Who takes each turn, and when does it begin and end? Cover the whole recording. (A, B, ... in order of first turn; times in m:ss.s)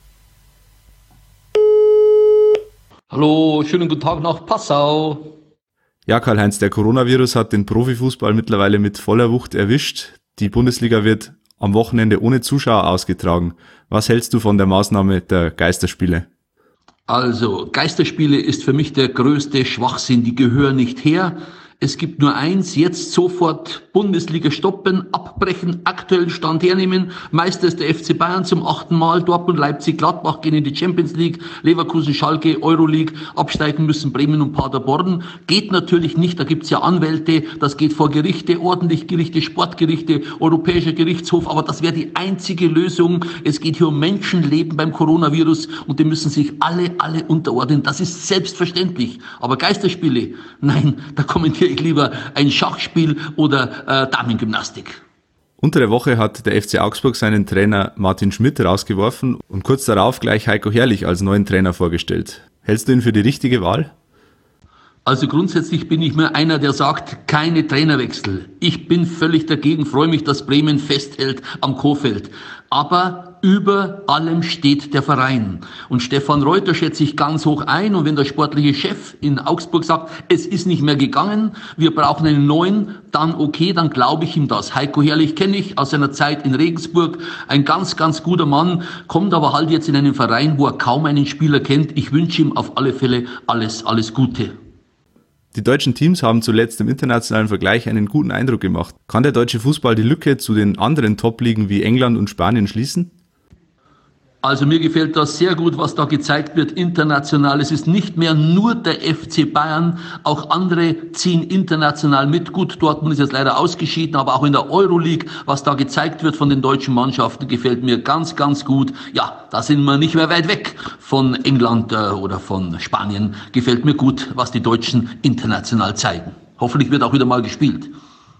0:03.1-0:05.3 A
0:06.1-0:16.3 B
0:17.1-0:55.0 A
0:55.6-1:03.9 B
1:05.1-1:34.5 A
1:35.5-1:43.1 B
1:44.4-2:07.9 A